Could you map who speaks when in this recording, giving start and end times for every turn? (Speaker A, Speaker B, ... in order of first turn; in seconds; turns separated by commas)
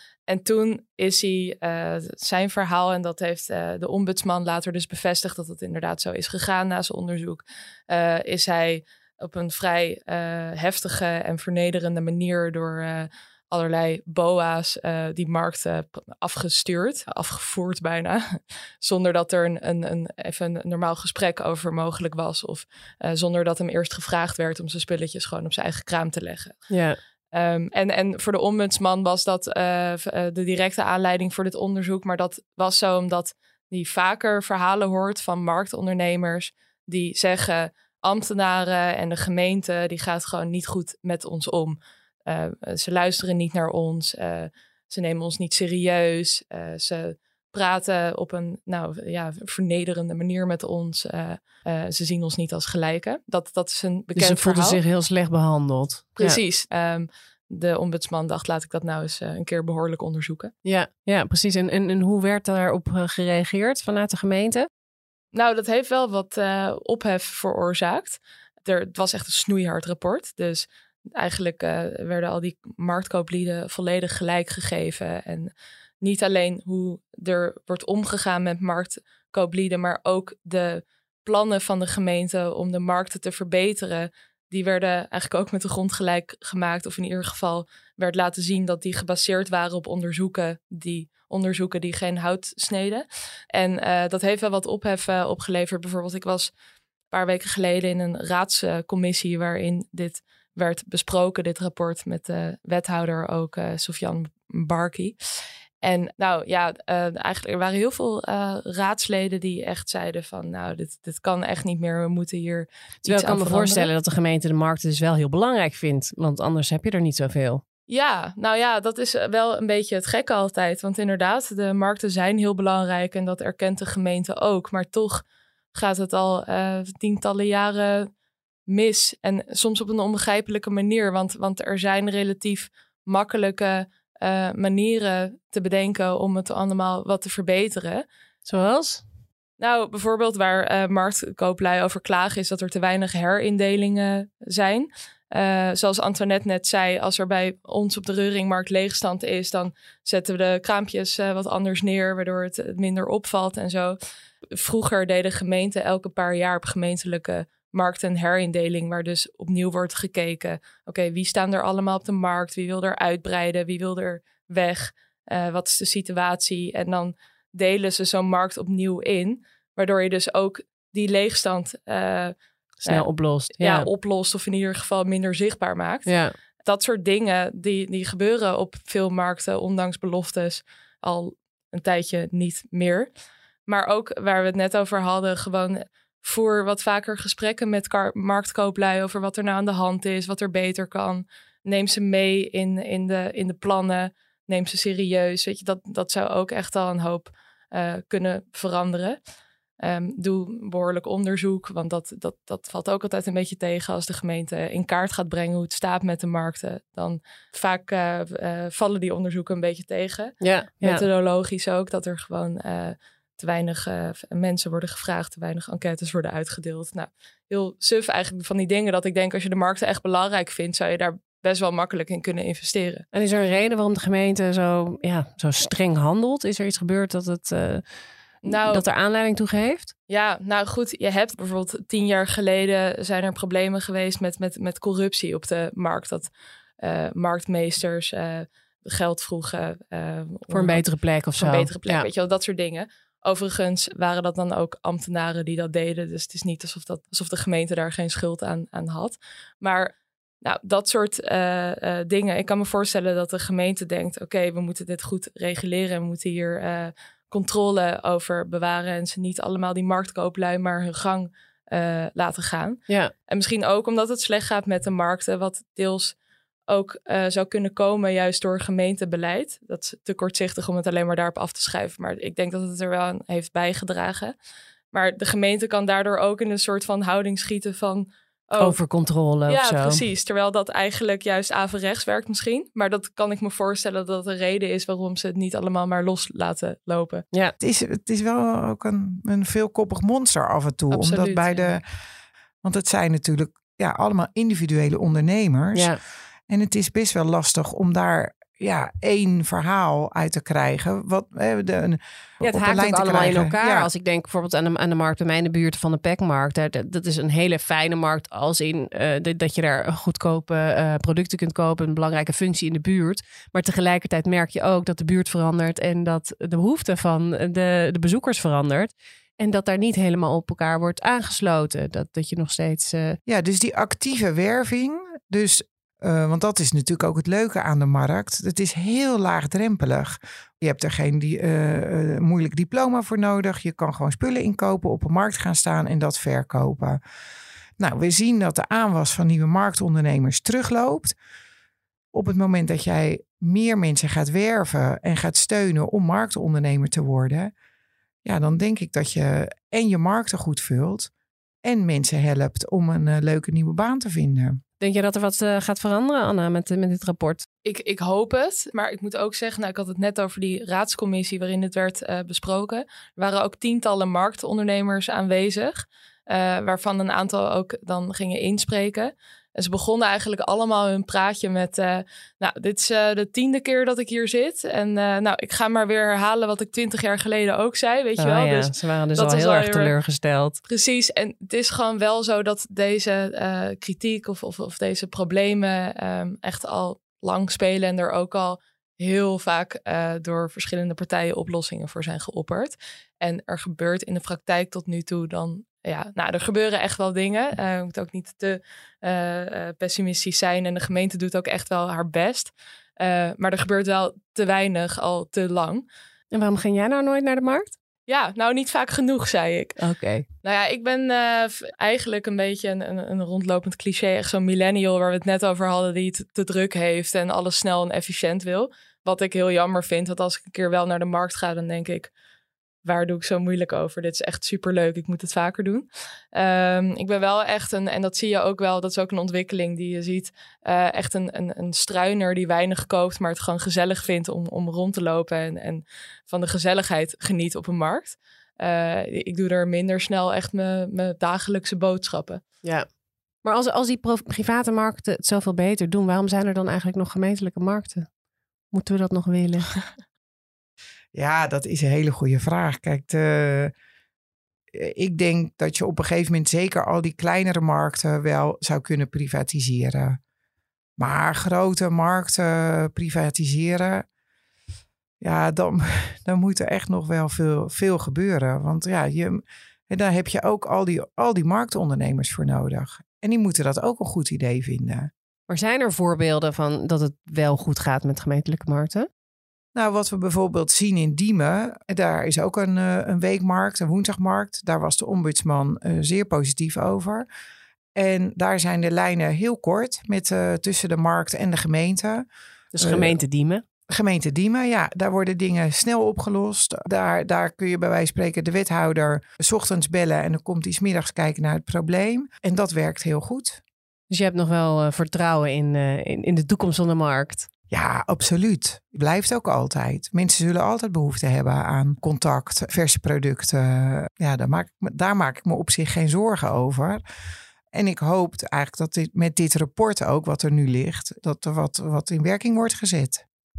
Speaker A: 0.3-26.7, Speaker B: 26.7-27.0, Speaker A: 27.3-54.8, Speaker B: 54.1-56.4, Speaker A: 56.2-60.5, Speaker B: 60.6-64.7, Speaker A: 65.3-96.5, Speaker A: 97.1-105.2, Speaker A: 105.8-113.9, Speaker B: 113.0-117.6, Speaker A: 117.9-128.1, Speaker A: 128.7-138.0, Speaker B: 138.4-139.0, Speaker A: 139.6-154.0, Speaker A: 154.5-172.3, Speaker B: 172.8-173.9, Speaker A: 173.6-183.1, Speaker B: 176.1-176.3, Speaker A: 183.7-199.2, Speaker A: 199.8-223.0, Speaker B: 210.4-211.0, Speaker B: 223.1-227.8, Speaker A: 228.4-228.8, Speaker B: 228.5-229.9, Speaker A: 230.1-240.8, Speaker B: 240.5-242.1, Speaker A: 241.4-266.1, Speaker A: 266.7-274.3, Speaker A: 274.9-278.8, Speaker B: 278.6-280.0, Speaker A: 279.5-287.2, Speaker C: 287.6-291.8, Speaker A: 290.9-291.7, Speaker C: 292.6-296.0, Speaker B: 295.7-296.0, Speaker C: 296.5-303.9, Speaker B: 302.4-323.2, Speaker C: 323.2-337.0, Speaker C: 337.8-341.1, Speaker C: 342.1-347.5, Speaker C: 348.2-351.1, Speaker C: 351.6-354.6, Speaker B: 354.8-357.4, Speaker A: 357.6-379.9, Speaker B: 378.2-380.6, Speaker A: 380.6-405.8, Speaker B: 406.3-407.8, Speaker A: 408.1-409.8, Speaker B: 409.8-410.2, Speaker A: 410.4-422.1, Speaker A: 422.8-442.4, Speaker B: 443.4-448.1, Speaker B: 448.7-449.7, Speaker C: 451.1-453.7, Speaker C: 454.7-460.2, Speaker C: 461.0-464.1, Speaker C: 465.2-475.1, Speaker B: 475.5-479.1, Speaker C: 479.7-487.2, Speaker C: 487.9-492.2, Speaker B: 492.7-493.6, Speaker C: 492.8-493.2, Speaker C: 493.9-503.6, Speaker B: 504.1-507.5, Speaker C: 507.7-517.0, Speaker C: 517.7-523.2